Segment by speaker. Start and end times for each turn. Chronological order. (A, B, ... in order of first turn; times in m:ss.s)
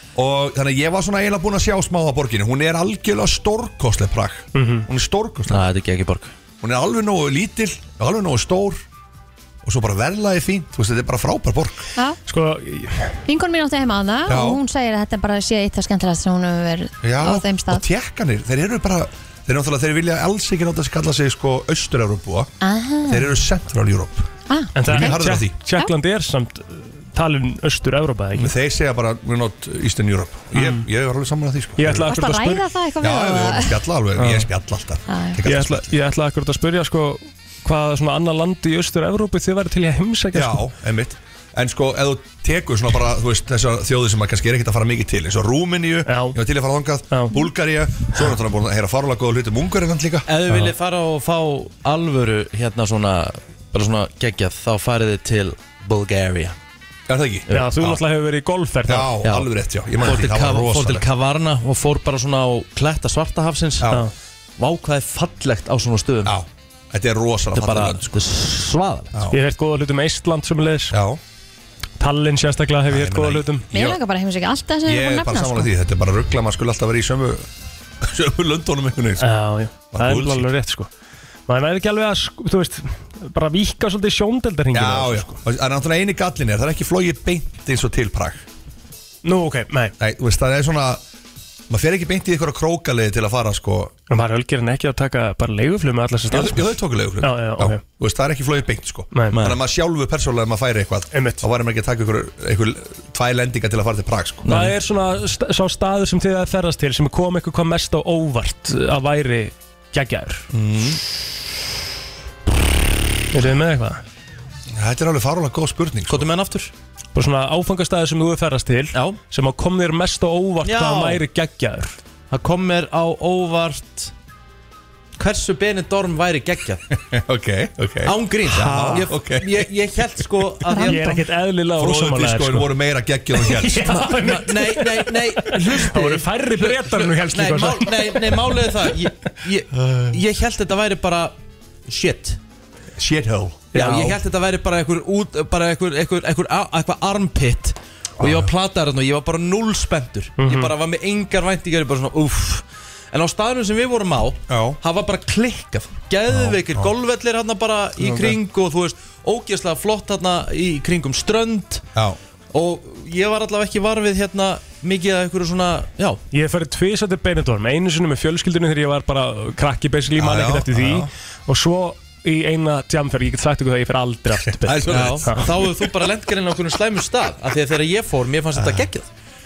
0:00.2-0:05.6 A
0:04.5-0:04.9 B
0:05.5-0:06.3 C
0:06.6-0:08.8 A
0:09.6-0:11.8 A
0:12.3-0:13.2 B
0:13.2-0:17.8 D
0:14.3-0:14.6 A
0:17.0-0:22.5 A
0:22.6-0:23.3 D
0:23.1-0:24.3 A
0:24.5-0:25.2 D
0:24.7-0:28.5 B
0:24.8-0:25.5 A
0:28.4-0:32.2 A
0:30.5-0:30.9 B
0:31.8-0:32.6 B
0:32.0-0:33.8 D
0:33.0-0:35.9 A
0:34.2-0:34.5 B
0:35.1-0:35.4 D
0:35.4-0:40.7 B
0:40.3-0:50.3 A
0:46.1-0:46.4 B
0:47.1-0:47.5 B
0:50.3-0:56.6 C
0:57.1-0:58.0 A
0:57.5-0:59.2 B
0:58.9-1:01.0 A
0:59.2-1:04.0 C
1:04.6-1:06.4 C
1:06.2-1:08.2 A
1:07.5-1:09.2 C
1:09.3-1:11.0 B
1:10.9-1:11.2 A
1:12.0-1:13.7 B
1:12.9-1:14.0 A
1:13.7-1:15.7 D
1:14.8-1:17.4 A
1:18.0-1:19.3 A
1:19.2-1:20.9 B
1:19.9-1:20.5 A
1:21.5-1:25.4 B
1:24.7-1:28.4 A
1:29.2-1:29.9 B
1:30.0-1:31.0 A
1:31.7-1:33.9 A
1:34.1-1:37.8 B
1:36.3-1:44.4 A
1:39.1-1:39.4 B
1:39.3-1:39.6 C
1:41.1-1:41.4 B
1:44.4-1:44.7 C
1:44.5-1:50.5 B
1:50.5-1:51.0 A
1:53.3-1:54.0 B
1:54.7-1:56.3 A
1:56.1-1:56.7 C
1:57.1-2:01.9 B
2:00.6-2:01.2 C
2:02.3-2:04.1 C
2:05.2-2:06.8 C
2:06.9-2:09.6 A
2:08.0-2:11.2 C
2:08.7-2:09.1 B
2:10.7-2:11.0 D
2:10.8-2:12.7 B
2:11.7-2:14.1 A
2:13.4-2:18.6 B
2:14.0-2:21.4 C
2:19.8-2:20.1 A
2:21.9-2:22.4 C
2:23.0-2:23.7 A
2:23.7-2:24.2 B
2:23.7-2:41.8 C
2:28.2-2:28.5 A
2:30.4-2:30.7 B
2:34.5-2:34.8 A
2:36.3-2:36.9 A
2:38.0-2:38.4 B
2:42.5-2:46.2 C
2:46.3-2:55.5 B
2:50.1-2:51.1 A
2:54.6-2:55.4 A
2:54.9-2:59.1 C
2:58.5-2:58.9 A